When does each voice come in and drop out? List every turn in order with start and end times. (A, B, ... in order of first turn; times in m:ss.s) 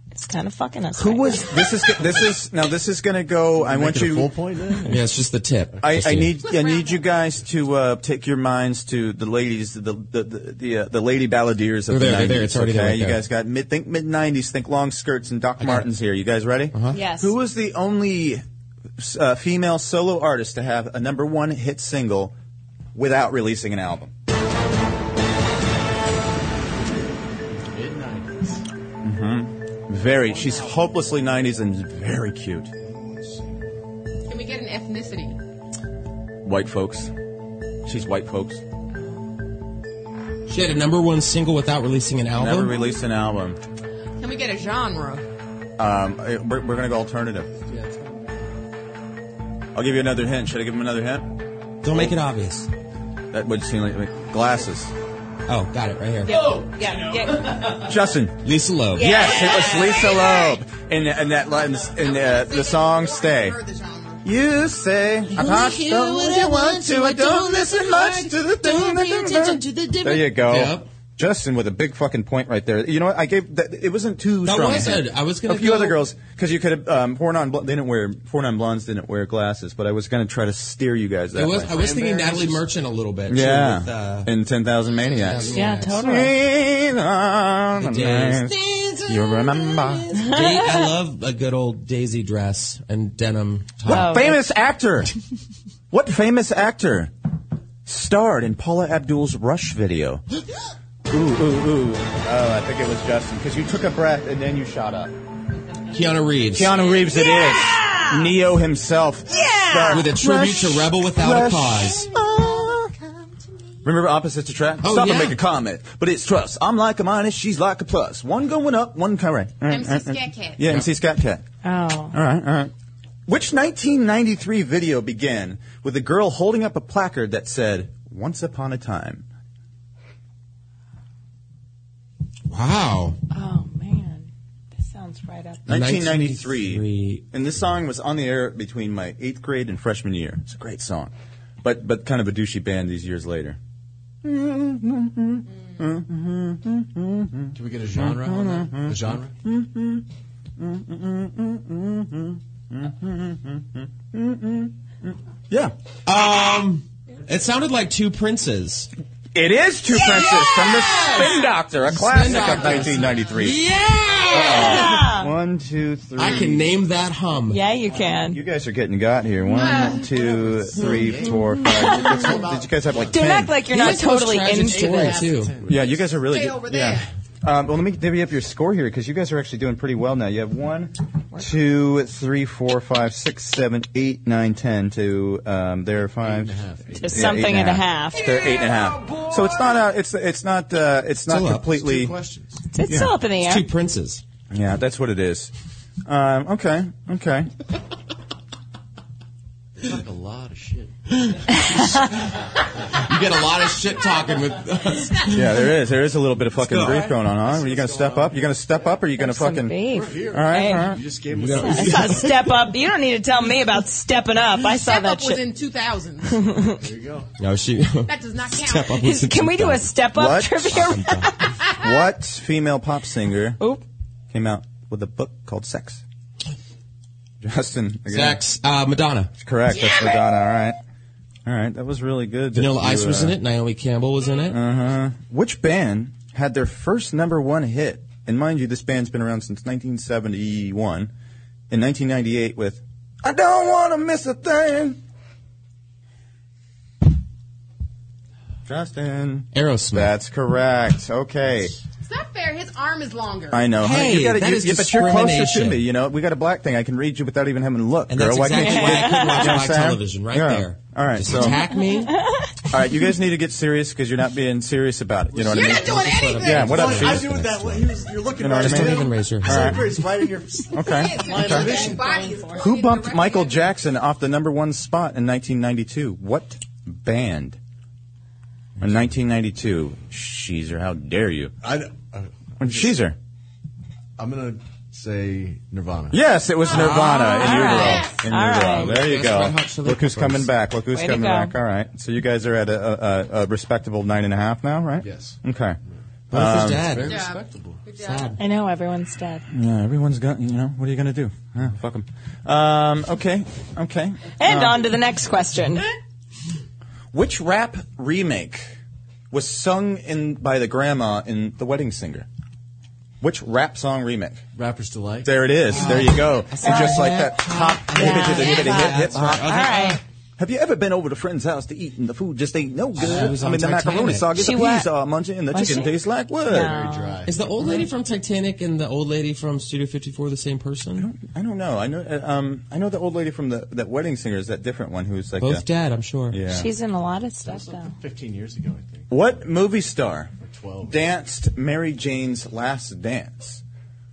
0:00.2-0:01.5 A
0:01.0-0:04.3 B
0:03.6-0:05.0 C
0:04.9-0:06.4 D
0:05.8-0:18.4 B
0:06.4-0:07.1 E
0:11.9-0:13.2 D
0:15.6-0:15.9 D
0:16.7-0:17.0 D
0:16.9-0:17.3 A
0:19.0-0:22.3 B
0:23.0-0:24.1 B
0:27.5-0:28.6 C
0:29.0-0:32.7 B
0:30.2-0:30.9 C
0:32.8-0:33.7 C
0:34.3-0:35.4 E
0:36.4-0:37.1 B
0:37.8-0:38.6 B
0:40.5-0:42.8 D
0:42.4-0:43.6 B
0:44.2-0:45.2 E
0:45.8-0:47.5 B
0:47.7-0:48.4 C
0:49.8-0:51.3 B
0:51.8-0:52.7 D
0:53.3-0:54.9 B
0:55.5-0:56.6 D
0:56.2-0:57.8 A
0:57.8-0:58.4 B
0:58.4-0:59.2 D
0:59.0-1:03.6 B
0:59.0-1:00.4 A
1:01.9-1:04.2 E
1:04.2-1:21.8 B
1:05.4-1:06.4 D
1:10.2-1:10.9 D
1:14.4-1:16.1 D
1:21.3-1:24.3 D
1:21.7-1:22.6 C
1:23.3-1:30.2 B
1:25.2-1:26.0 D
1:25.5-1:26.4 A
1:27.8-1:34.2 D
1:30.2-1:31.0 A
1:33.9-1:35.1 B
1:33.9-1:34.4 A
1:35.9-1:37.1 B
1:37.9-1:40.2 B
1:41.1-1:45.1 B
1:45.9-1:46.8 D
1:46.5-1:52.9 B
1:46.9-1:48.3 A
1:49.3-1:50.2 A
1:49.9-1:52.1 D
1:53.8-2:01.4 B
1:54.8-1:55.4 D
1:59.7-2:00.7 E
2:01.6-2:02.2 A
2:02.1-2:02.7 B
2:03.3-2:09.2 B
2:12.5-2:13.2 D
2:13.3-2:15.7 A
2:15.7-2:17.3 D
2:15.7-2:23.6 B
2:24.2-2:30.0 B
2:27.5-2:29.3 C
2:30.6-2:35.7 B
2:36.1-2:38.9 D
2:39.4-2:43.6 B
2:39.9-2:45.1 D
2:44.3-2:46.7 B
2:44.3-2:45.3 A
2:46.2-2:47.6 D
2:47.5-2:48.4 A
2:48.3-2:53.6 B
2:49.9-2:53.2 C
2:50.8-2:51.5 D
2:53.1-2:55.2 A
2:53.6-2:55.6 D
2:54.5-2:56.2 C
2:55.6-3:06.6 B
2:56.2-2:57.1 E
3:06.2-3:07.4 C
3:07.0-3:08.4 A
3:07.1-3:12.2 B
3:11.3-3:11.8 D
3:11.7-3:12.6 C
3:12.7-3:13.7 A
3:12.9-3:13.1 B
3:13.3-3:14.2 D
3:14.5-3:15.5 B
3:16.1-3:17.5 B
3:19.8-3:21.0 C
3:23.0-3:25.6 D
3:25.3-3:31.0 B
3:26.6-3:27.1 D
3:26.7-3:28.6 C
3:29.2-3:35.4 A
3:29.9-3:32.3 C
3:31.3-3:32.5 D
3:34.8-3:36.7 E
3:36.4-3:36.8 A
3:36.8-3:37.3 C
3:37.4-3:40.0 D
3:38.1-3:39.2 E
3:39.0-3:41.5 A
3:40.1-3:40.9 B
3:40.9-3:41.2 D
3:41.8-3:43.6 B
3:44.3-3:46.0 B
3:47.4-3:48.4 B
3:48.1-3:49.3 D
3:49.4-3:50.8 B
3:49.7-3:50.2 E
3:51.5-3:53.4 B
3:52.5-3:54.6 D
3:54.5-4:01.1 B
4:01.7-4:05.0 B
4:08.7-4:11.8 B
4:09.5-4:10.2 D
4:12.0-4:13.8 E
4:13.5-4:21.6 B
4:13.8-4:15.9 D
4:18.1-4:22.2 D
4:18.5-4:19.6 A
4:21.4-4:22.5 A
4:22.7-4:27.4 B
4:25.4-4:26.8 E
4:25.4-4:28.0 D
4:26.2-4:32.4 C
4:28.4-4:29.9 B
4:28.5-4:30.0 D
4:30.7-4:31.8 B
4:30.8-4:33.7 E
4:32.6-4:37.6 B
4:38.8-4:41.5 B
4:41.6-4:43.0 C
4:42.6-4:43.2 B
4:44.2-4:46.2 C
4:46.1-4:55.8 B
4:46.7-4:49.0 A
4:46.7-4:47.7 D
4:47.7-4:48.2 E
4:48.6-4:50.5 D
4:50.9-4:51.5 A
4:55.0-4:55.4 C
4:56.3-4:56.9 B
4:56.3-4:57.3 D
4:56.7-4:57.8 C
4:57.1-4:58.4 E
4:58.0-4:58.4 D
4:58.4-4:59.4 A
4:59.5-5:04.8 B
5:04.4-5:05.9 A
5:07.1-5:08.7 B
5:09.3-5:12.3 B
5:13.2-5:14.4 B
5:14.6-5:15.5 C
5:15.2-5:19.6 B
5:15.7-5:20.0 D
5:16.6-5:17.1 A
5:17.9-5:20.0 A
5:20.4-5:26.7 B
5:23.0-5:24.4 D
5:23.0-5:23.4 C
5:24.3-5:24.9 A
5:25.5-5:27.2 A
5:26.5-5:27.6 C
5:27.3-5:31.1 D
5:31.0-5:35.7 B
5:35.4-5:36.4 D
5:36.3-5:36.7 B
5:36.5-5:37.9 A
5:37.4-5:39.1 C
5:39.1-5:40.3 B
5:40.4-5:41.2 C
5:40.9-5:43.6 B